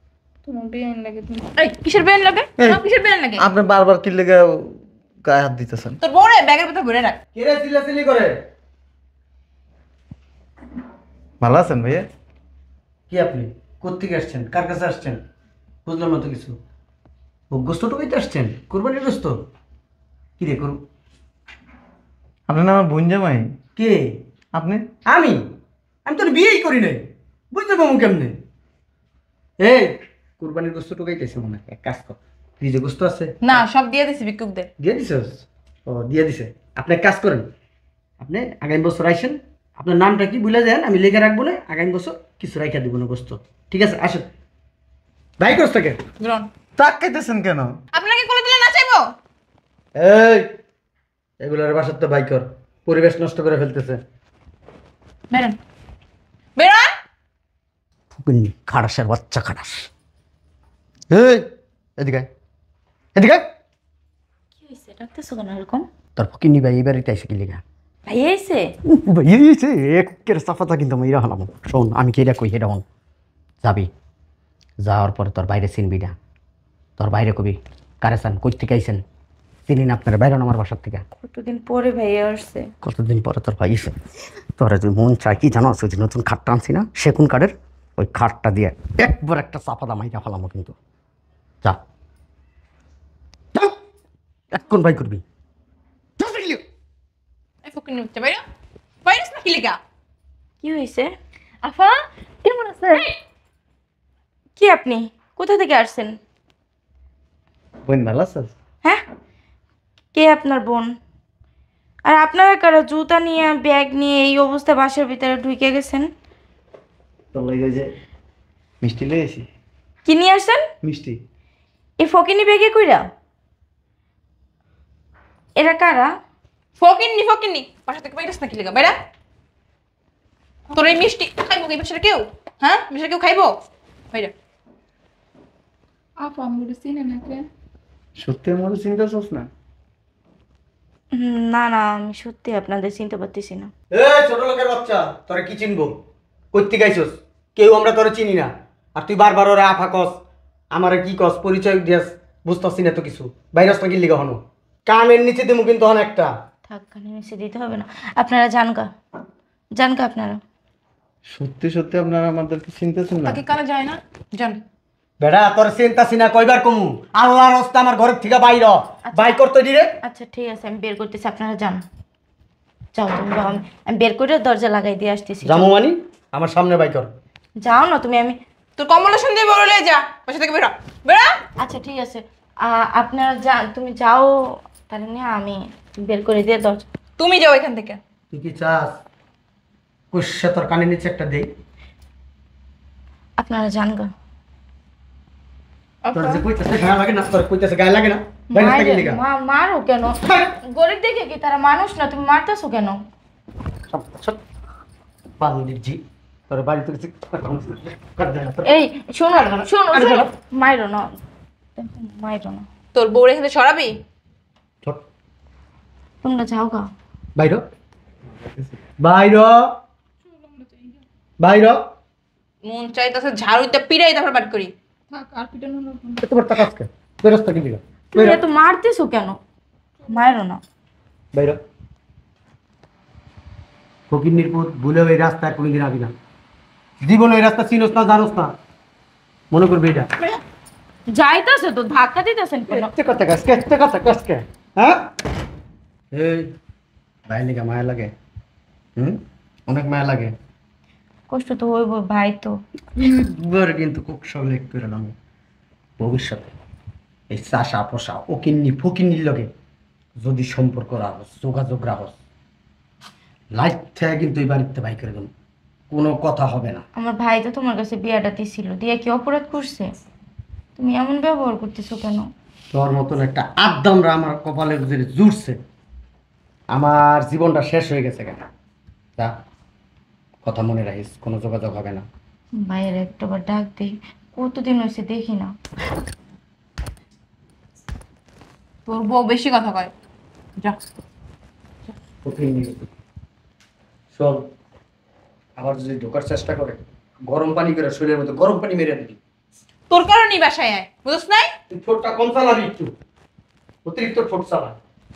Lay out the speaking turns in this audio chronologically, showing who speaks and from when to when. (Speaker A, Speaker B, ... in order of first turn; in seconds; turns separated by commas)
Speaker A: 0.5-1.5, Speaker B: 1.6-3.5, Speaker C: 3.4-6.0, Speaker B: 6.0-7.2, Speaker D: 7.3-8.4, Speaker C: 11.4-12.1, Speaker D: 13.1-15.2, Speaker D: 15.9-16.6, Speaker D: 17.5-19.4, Speaker D: 20.4-20.8, Speaker C: 22.5-23.6, Speaker D: 23.8-24.2, Speaker C: 24.5-24.9, Speaker D: 25.1-25.4, Speaker D: 26.1-28.4, Speaker D: 29.6-33.3, Speaker B: 33.4-34.7, Speaker D: 34.8-37.5, Speaker D: 38.2-44.3, Speaker D: 45.4-46.0, Speaker B: 46.2-46.5, Speaker C: 46.8-47.8, Speaker B: 47.9-49.1, Speaker D: 50.0-50.5, Speaker D: 51.4-54.0, Speaker B: 55.3-55.6, Speaker B: 56.6-56.9, Speaker D: 58.1-59.9, Speaker D: 61.1-61.5, Speaker D: 62.0-62.3, Speaker D: 63.1-63.4, Speaker E: 64.6-65.9, Speaker D: 66.2-67.6, Speaker E: 68.1-68.7, Speaker D: 68.9-72.8, Speaker D: 73.6-73.9, Speaker D: 74.8-76.2, Speaker D: 77.0-79.0, Speaker D: 79.7-81.0, Speaker E: 81.2-82.7, Speaker D: 82.8-84.0, Speaker D: 84.6-90.8, Speaker D: 94.5-95.2, Speaker D: 96.2-96.6, Speaker B: 97.7-98.4, Speaker B: 99.0-99.8, Speaker E: 100.6-101.1, Speaker B: 101.6-103.1, Speaker E: 104.6-106.2, Speaker C: 107.8-108.5, Speaker E: 110.1-111.0, Speaker E: 112.0-116.1, Speaker C: 117.3-117.9, Speaker C: 118.8-119.5, Speaker E: 120.0-120.6, Speaker C: 120.8-121.2, Speaker E: 122.0-123.1, Speaker E: 125.5-126.1, Speaker B: 126.8-129.0, Speaker B: 130.7-133.6, Speaker A: 136.2-137.4, Speaker C: 138.2-139.5, Speaker E: 141.1-143.7, Speaker D: 143.9-145.9, Speaker D: 146.5-150.2, Speaker D: 150.7-156.3, Speaker E: 156.7-158.9, Speaker E: 159.8-160.4, Speaker C: 161.3-163.4, Speaker B: 163.2-164.6, Speaker D: 165.2-170.0, Speaker E: 169.1-169.4, Speaker E: 170.0-171.8, Speaker E: 172.9-175.8, Speaker D: 175.4-177.1, Speaker E: 177.6-178.4, Speaker B: 178.8-181.3, Speaker E: 181.6-186.8, Speaker B: 187.2-188.0, Speaker D: 188.3-189.0, Speaker D: 190.1-191.5, Speaker E: 193.4-194.1, Speaker B: 196.1-196.4, Speaker D: 196.1-199.2, Speaker E: 198.5-203.0, Speaker D: 203.9-204.4, Speaker D: 205.4-208.8, Speaker E: 208.6-211.2, Speaker D: 209.5-210.3, Speaker E: 211.8-212.7, Speaker B: 212.9-214.0, Speaker E: 216.2-216.9, Speaker D: 217.4-217.6, Speaker C: 218.4-218.7, Speaker D: 219.0-219.8, Speaker A: 220.3-221.0, Speaker D: 221.4-221.8, Speaker B: 222.6-224.7, Speaker A: 225.1-226.2, Speaker D: 226.2-228.4, Speaker E: 228.1-229.4, Speaker E: 230.1-230.6, Speaker D: 231.3-231.6, Speaker D: 234.1-236.1, Speaker D: 237.0-238.5, Speaker D: 239.5-240.1, Speaker E: 241.1-242.9, Speaker D: 242.7-245.1, Speaker D: 246.1-246.5, Speaker D: 247.3-248.1, Speaker D: 249.0-250.3, Speaker E: 251.3-252.6, Speaker D: 253.0-255.1, Speaker D: 256.0-256.5, Speaker D: 257.3-259.5, Speaker D: 260.2-262.1, Speaker D: 263.6-265.3, Speaker D: 265.9-266.9, Speaker E: 267.0-269.9, Speaker E: 270.8-272.3, Speaker D: 272.7-275.6, Speaker D: 276.7-278.4, Speaker D: 280.4-282.1, Speaker E: 282.6-285.6, Speaker B: 288.9-289.9, Speaker D: 292.2-292.9, Speaker D: 294.1-294.5, Speaker D: 295.6-299.2, Speaker B: 299.9-301.5, Speaker D: 301.7-302.9, Speaker D: 303.9-304.8